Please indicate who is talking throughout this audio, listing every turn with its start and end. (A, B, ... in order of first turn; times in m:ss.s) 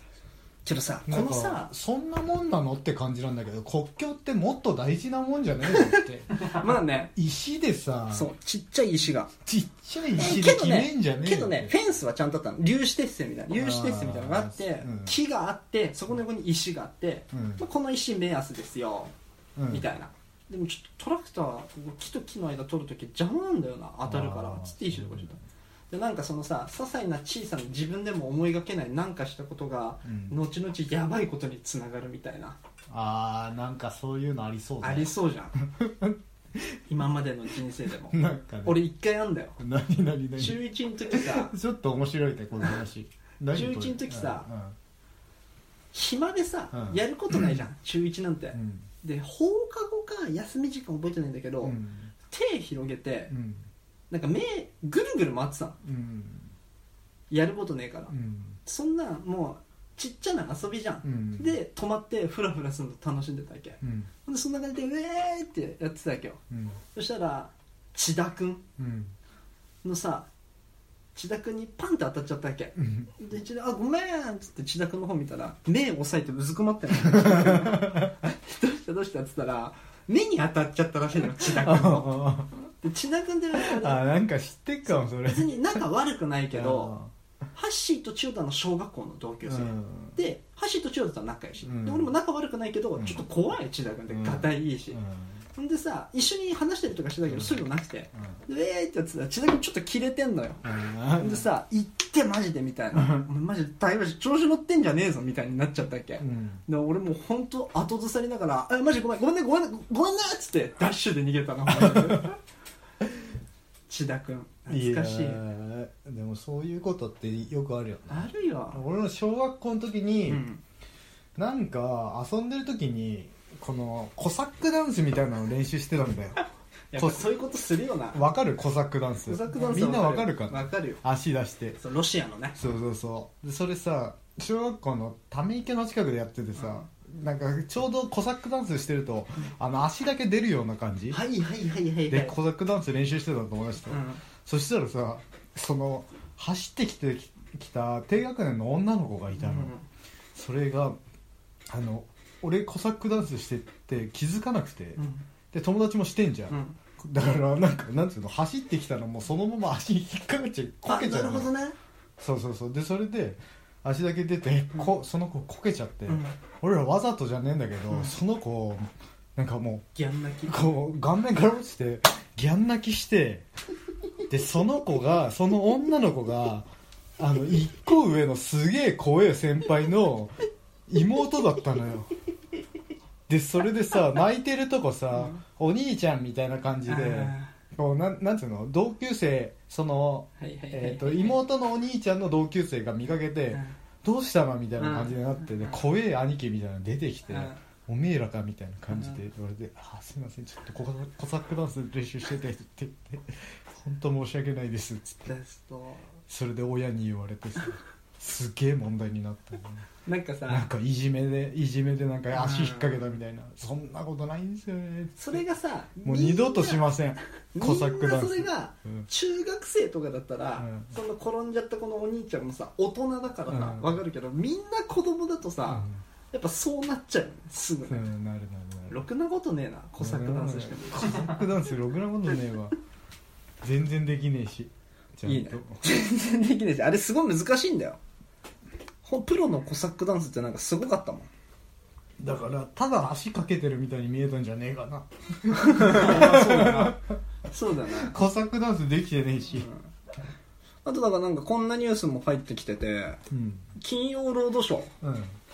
0:00.6-0:01.7 A
0:01.1-0:06.3 B
0:05.7-0:07.1 A
0:07.2-0:08.3 B
0:08.1-0:09.3 A
0:09.5-0:11.7 B
0:10.2-0:19.1 A
0:13.5-0:15.2 B
0:17.3-0:17.6 B
0:19.6-0:19.9 B
0:19.7-0:25.4 A
0:24.0-0:25.5 B
0:25.9-0:32.6 A
0:30.0-0:30.4 B
0:32.9-0:36.8 B
0:34.8-0:35.6 A
0:36.9-0:39.6 A
0:38.1-0:38.8 B
0:39.6-0:44.8 B
0:40.4-0:41.6 A
0:43.5-0:44.5 A
0:45.9-0:51.8 A
0:46.7-0:47.6 B
0:48.5-0:48.9 B
0:51.6-0:52.1 B
0:52.3-0:53.3 A
0:53.3-0:53.7 B
0:54.1-0:55.8 A
0:55.8-0:56.5 B
0:57.3-0:58.1 A
0:58.1-0:58.6 B
0:58.6-1:06.4 A
1:01.0-1:01.6 B
1:03.8-1:04.1 B
1:06.5-1:06.8 B
1:06.9-1:08.6 A
1:08.8-1:09.2 B
1:09.8-1:10.3 A
1:11.2-1:22.3 A
1:12.8-1:13.1 B
1:17.0-1:18.1 B
1:21.4-1:22.5 B
1:22.8-1:24.1 A
1:23.5-1:25.8 B
1:24.9-1:27.0 A
1:26.5-1:27.1 B
1:27.6-1:35.0 A
1:29.5-1:30.2 B
1:31.6-1:32.1 B
1:33.0-1:33.2 B
1:34.1-1:35.4 B
1:35.6-1:52.4 A
1:37.3-1:37.6 B
1:40.6-1:41.5 B
1:42.9-1:43.3 B
1:46.2-1:46.6 B
1:51.7-1:52.2 B
1:53.9-1:55.4 A
1:54.7-2:00.4 B
1:58.1-1:58.8 A
2:00.3-2:00.6 A
2:01.4-2:06.4 B
2:06.9-2:08.2 A
2:07.0-2:07.3 B
2:08.1-2:11.8 B
2:09.3-2:11.0 A
2:11.8-2:12.6 A
2:12.6-2:21.2 B
2:21.1-2:22.4 A
2:22.1-2:29.7 B
2:23.9-2:24.2 A
2:29.4-2:29.8 A
2:30.4-2:31.0 B
2:31.7-2:35.0 B
2:35.0-2:35.2 A
2:35.5-2:41.5 B
2:36.5-2:36.8 A
2:40.8-2:41.8 A
2:42.2-2:49.9 B
2:46.1-2:46.4 A
2:50.0-2:50.6 A
2:50.5-2:53.5 B
2:54.3-2:56.7 B
2:57.2-3:00.4 B
3:00.9-3:02.1 B
3:03.3-3:25.3 B
3:05.1-3:05.4 A
3:06.9-3:07.5 A
3:10.4-3:11.4 A
3:14.8-3:15.8 A
3:17.3-3:17.6 A
3:25.3-3:26.1 A
3:26.3-3:29.9 B
3:30.1-3:30.7 A
3:30.5-3:35.4 B
3:32.3-3:33.2 A
3:35.2-3:36.9 A
3:36.0-3:39.1 B
3:37.5-3:48.0 A
3:40.6-3:40.9 B
3:43.5-3:44.0 B
3:45.7-3:46.0 B
3:47.9-3:49.0 B
3:48.9-3:51.5 A
3:50.0-3:52.8 B
3:53.6-3:55.8 B
3:55.3-3:58.0 A
3:59.0-4:01.3 A
4:02.2-4:07.0 B
4:05.5-4:08.2 A
4:07.9-4:09.7 B
4:09.6-4:09.9 A
4:10.8-4:13.2 A
4:13.3-4:13.7 B
4:13.8-4:14.9 A
4:15.0-4:15.4 B